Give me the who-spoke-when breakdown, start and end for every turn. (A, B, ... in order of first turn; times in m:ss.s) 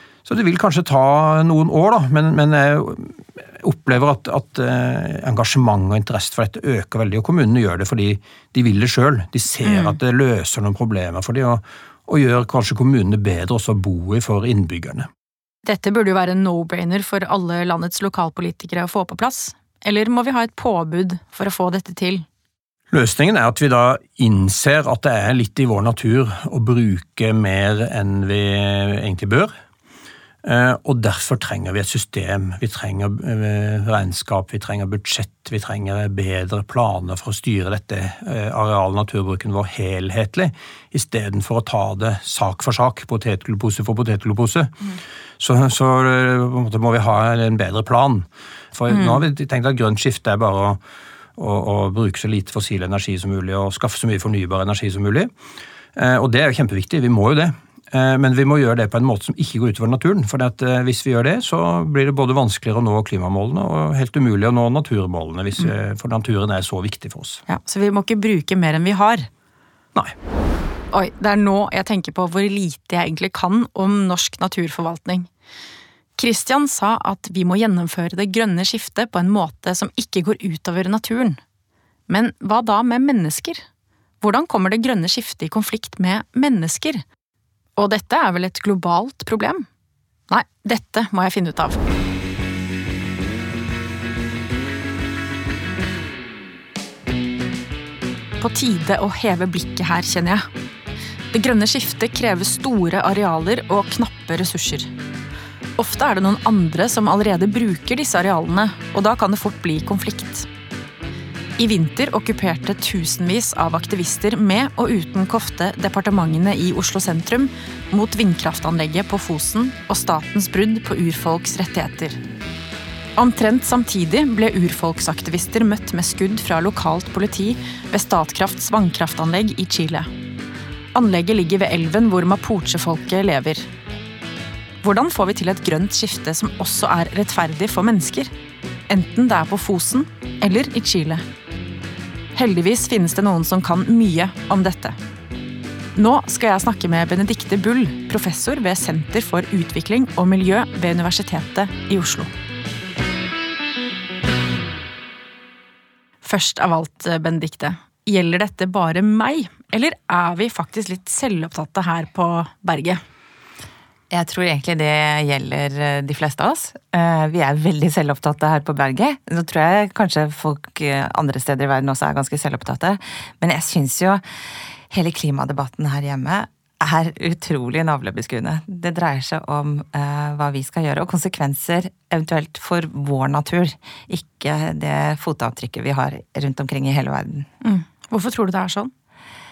0:00.2-0:15.1 A
0:09.6-0:10.0 B
0:15.6-0:22.2 B
0:22.9-0:29.5 A
0:30.4-0:44.7 A
0:45.4-0:50.8 A
0:48.9-0:49.2 B
0:51.4-0:55.3 A
0:55.9-1:07.4 A
1:07.5-1:09.3 B
1:10.9-1:15.3 B
1:16.2-1:21.4 B
1:22.1-1:23.6 B
1:24.2-1:27.0 B
1:27.8-1:29.6 B
1:30.3-1:31.8 B
1:38.4-1:40.5 B
1:41.3-1:44.9 B
1:45.8-1:50.5 B
1:51.6-2:02.2 B
2:03.2-2:10.1 B
2:10.9-2:13.7 B
2:14.8-2:18.3 B
2:18.9-2:21.2 B
2:22.3-2:25.0 B
2:25.9-2:32.3 B
2:36.2-2:43.0 B
2:44.1-2:54.2 C
2:54.9-3:07.5 C
3:07.6-3:08.9 B